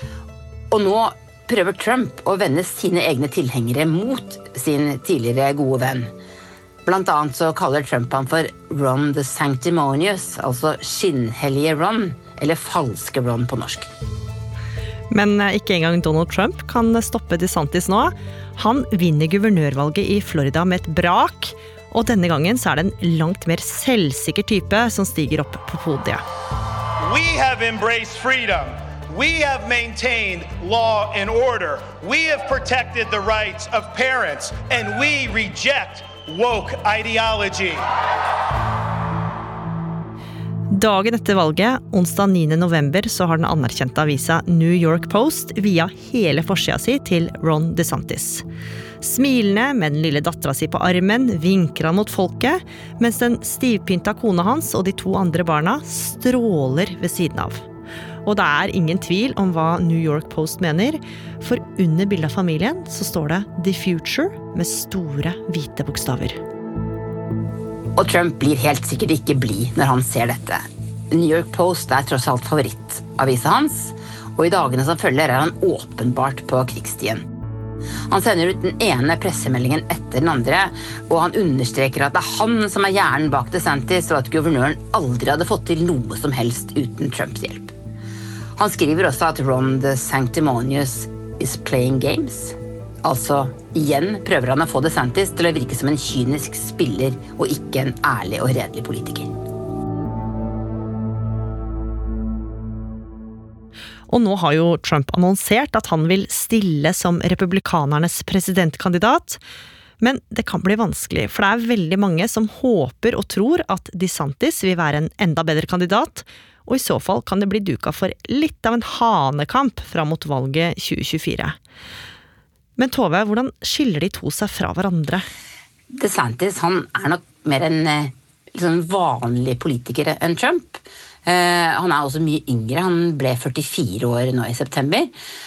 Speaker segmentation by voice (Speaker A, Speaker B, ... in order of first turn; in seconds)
Speaker A: 0.7-6.1, 6.8-13.9, 68.0-77.2, 78.1-87.7, 88.6-99.3, 125.9-135.1
Speaker B: 15.1-26.2, 40.7-48.4, 49.0-57.6, 58.2-66.4, 104.1-109.4, 110.0-121.6, 122.8-125.3
Speaker C: 27.0-37.8